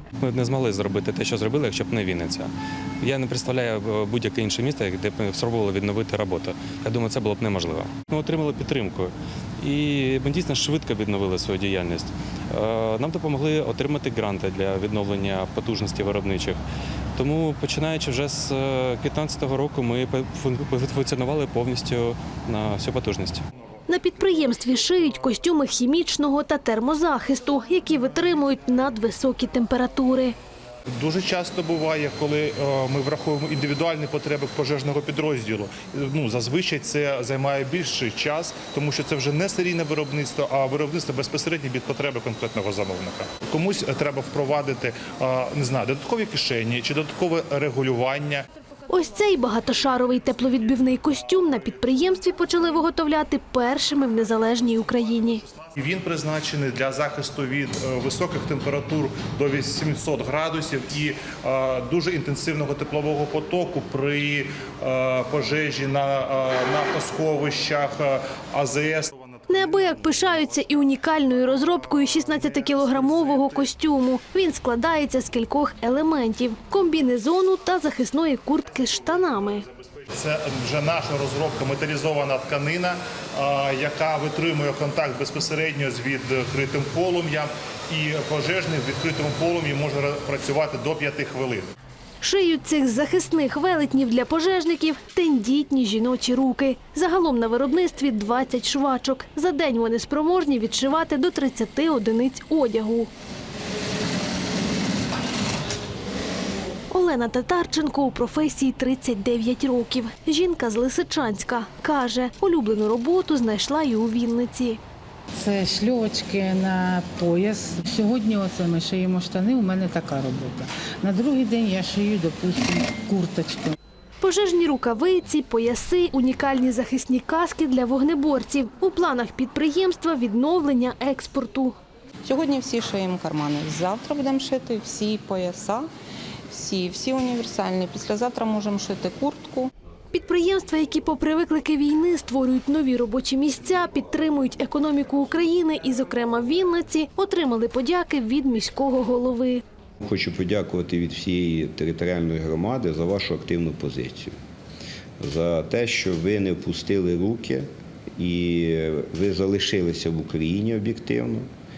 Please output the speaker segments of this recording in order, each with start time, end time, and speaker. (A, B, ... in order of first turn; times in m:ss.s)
0:00.2-0:16.6 A
0:17.2-0:23.4 A
0:23.9-0:30.3 B
0:31.0-0:48.4 C
0:48.9-0:55.4 B
0:55.7-1:10.7 C
1:09.5-1:19.6 B
1:12.4-1:13.5 C
1:20.1-1:31.7 C
1:32.2-1:43.1 B
1:46.9-1:54.8 B
1:55.3-2:03.8 D
2:04.2-2:11.7 B
2:12.2-2:15.9 E
2:16.5-2:19.7 E
2:20.1-2:29.6 B
2:30.0-2:34.3 F
2:35.2-2:41.4 F